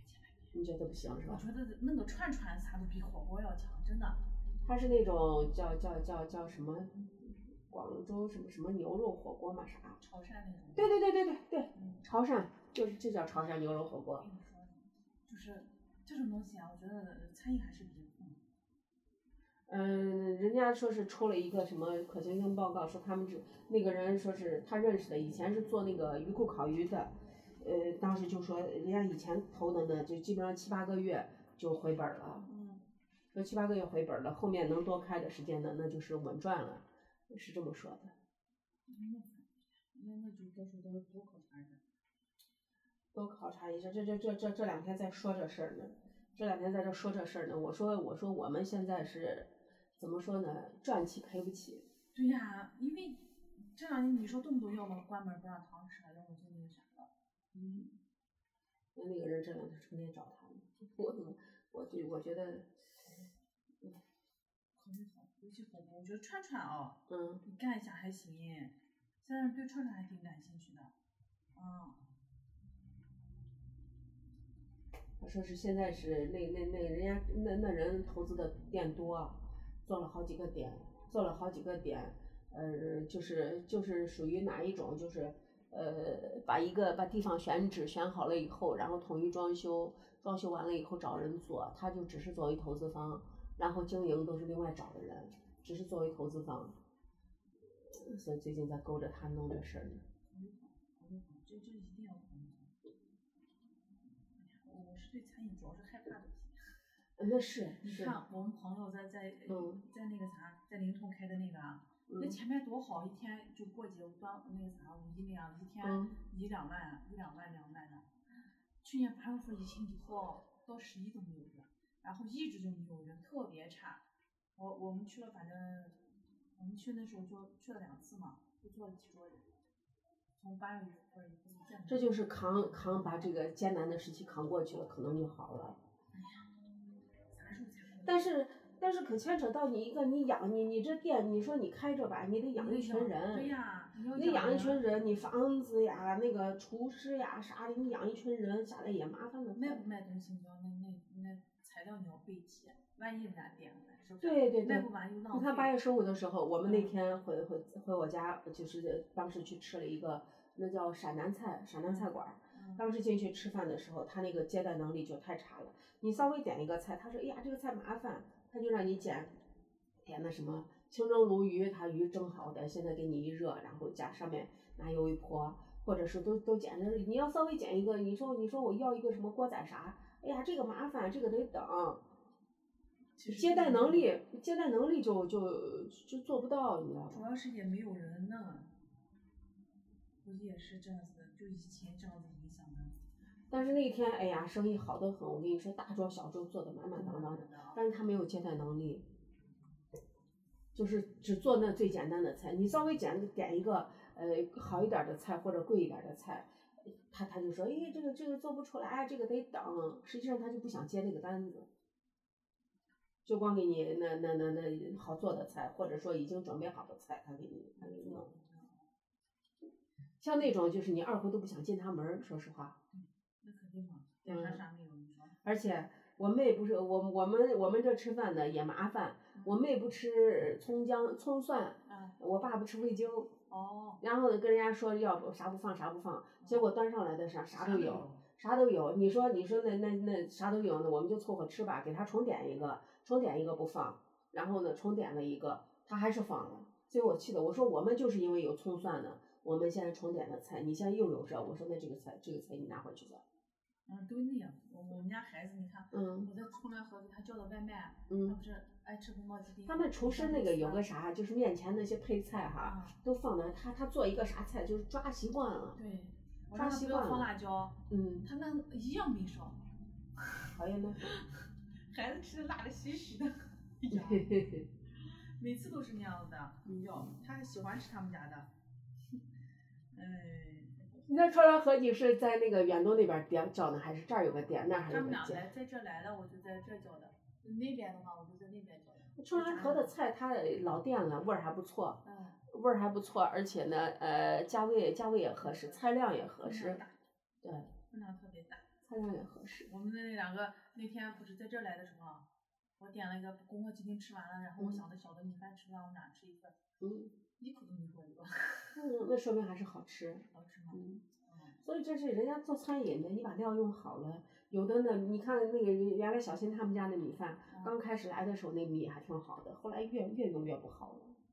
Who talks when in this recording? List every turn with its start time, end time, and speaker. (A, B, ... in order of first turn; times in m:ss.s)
0:00.5-0:01.4 A
0:01.2-0:04.2 B
0:04.6-0:10.0 A
0:10.0-0:11.0 B
0:10.8-0:14.3 A
0:11.8-0:12.0 B
0:14.2-0:18.4 B
0:19.7-0:32.5 A
0:32.4-0:32.9 B
0:33.3-0:38.1 A
0:38.9-0:41.8 B
0:43.1-0:51.9 A
0:52.1-0:57.1 B
0:57.5-0:58.0 A
0:59.0-1:02.7 A
1:04.8-1:10.9 B
1:07.1-1:07.4 A
1:11.5-1:12.1 B
1:15.2-1:36.8 A
1:37.9-1:40.0 A
1:40.2-1:42.7 B
1:44.4-1:46.8 B
1:47.2-1:48.2 A
1:47.8-1:58.1 B
1:49.5-1:49.8 A
1:52.1-1:52.4 A
1:55.8-1:56.2 A
1:58.8-2:04.0 B
2:04.6-2:06.0 B
2:06.6-2:09.5 B
2:10.4-2:13.3 B
2:11.9-2:15.8 A
2:16.1-2:16.6 B
2:17.3-2:18.3 B
2:18.0-2:23.6 A
2:22.5-2:25.1 B
2:24.1-2:29.8 A
2:29.5-2:35.8 B
2:34.2-2:49.3 A
2:36.6-2:37.0 B
2:41.8-2:42.9 B
2:50.0-3:02.0 A
3:03.2-3:04.1 B
3:03.3-3:07.2 A
3:07.1-3:08.7 B
3:10.2-3:13.0 B
3:13.5-3:19.1 A
3:16.9-3:17.8 B
3:20.7-3:31.7 A
3:33.2-3:38.3 A
3:37.8-3:38.8 B
3:40.2-3:42.8 A
3:42.9-3:45.4 B
3:44.3-3:44.6 A
3:45.4-3:53.3 A
3:49.3-3:49.6 B
3:51.8-3:52.2 B
3:53.5-3:54.0 B
3:54.0-4:13.2 A
3:56.4-3:56.7 B
3:57.5-3:58.2 B
4:13.9-4:20.9 B
4:15.9-4:16.3 A
4:18.1-4:18.4 A
4:19.7-4:25.8 A
4:22.6-4:23.0 B
4:25.8-4:29.7 B
4:26.5-4:27.3 A
4:27.9-4:28.3 A
4:30.5-4:31.1 A
4:31.0-4:34.3 B
4:33.9-4:34.7 A
4:34.9-4:38.5 B
4:39.9-4:40.9 B
4:41.0-4:45.5 A
4:44.9-4:50.0 B
4:49.2-4:56.8 A
4:52.0-4:52.4 B
4:55.4-4:57.0 B
4:57.4-4:57.7 A
4:57.9-4:58.7 B
4:58.8-4:59.7 A
4:59.6-5:02.3 B
5:02.8-5:06.6 B
5:04.6-5:04.8 A
5:06.8-5:07.1 A
5:07.4-5:08.8 B
5:08.7-5:11.1 A
5:10.3-5:11.6 B
5:11.6-5:21.2 A
5:17.5-5:17.8 B